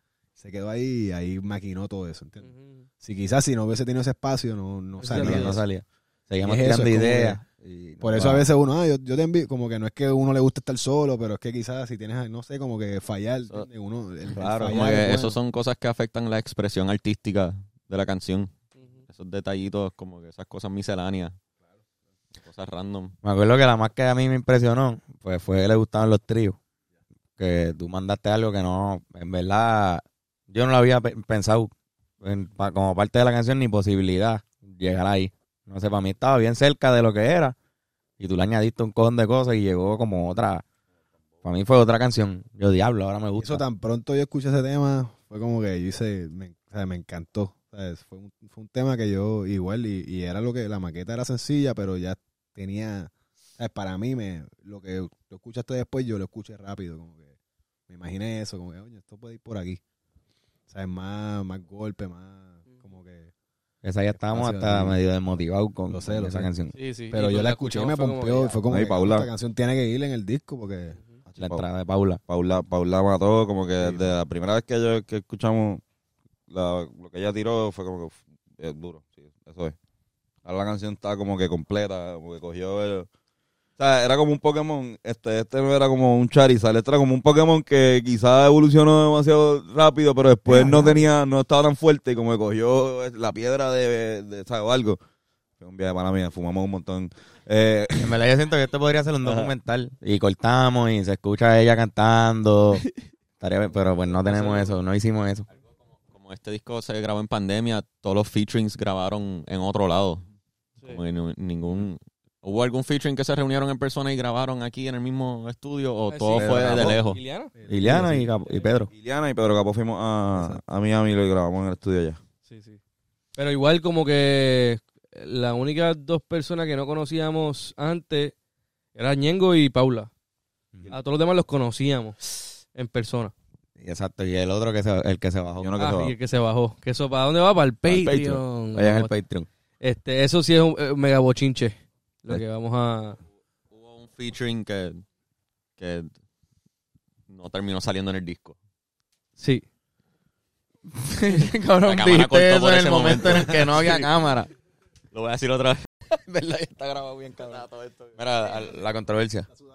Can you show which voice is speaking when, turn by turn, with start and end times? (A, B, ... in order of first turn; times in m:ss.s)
0:00.4-0:05.6 A
0:02.4-0:02.9 B
0:05.0-0:05.6 B
0:05.1-0:08.5 C
0:06.4-0:07.4 A
0:08.0-0:15.4 A
0:14.4-0:14.8 C
0:14.6-0:18.5 D
0:19.1-0:21.4 D
0:22.4-0:23.2 D
0:23.2-0:26.6 C
0:27.4-0:37.6 C
0:38.2-0:40.6 C
0:41.4-0:43.6 C
0:43.4-0:57.4 A
0:57.9-0:59.8 A
1:00.7-1:03.3 A
1:03.8-1:06.7 C
1:04.2-1:05.0 A
1:05.9-1:06.5 A
1:06.7-1:08.6 B
1:07.1-1:11.0 A
1:08.7-1:09.3 E
1:11.3-1:11.6 E
1:11.4-1:12.2 C
1:12.3-1:15.8 E
1:13.8-1:14.2 A
1:16.5-1:19.8 E
1:20.4-1:23.1 E
1:23.8-1:35.0 E
1:30.5-1:31.0 C
1:35.6-1:38.2 E
1:38.0-1:42.8 C
1:39.2-1:39.5 E
1:43.4-1:45.5 C
1:44.2-1:44.8 B
1:46.1-1:50.2 D
1:50.8-1:57.2 D
1:56.1-1:57.5 B
1:56.3-1:57.0 C
1:57.6-1:58.2 A
1:57.7-1:58.9 C
1:58.9-2:02.2 E
2:02.5-2:02.8 B
2:03.4-2:08.4 B
2:09.0-2:10.1 B
2:10.9-2:13.3 B
2:13.8-2:15.7 C
2:15.6-2:16.1 E
2:15.8-2:19.1 B
2:17.9-2:18.4 E
2:18.8-2:19.5 C
2:19.8-2:23.2 B
2:23.7-2:25.0 D
2:25.8-2:26.1 D
2:27.3-2:28.6 D
2:29.4-2:29.6 B
2:30.9-2:34.5 C
2:31.8-2:34.1 D
2:35.1-2:35.9 D
2:36.1-2:39.5 C
2:37.5-2:38.1 D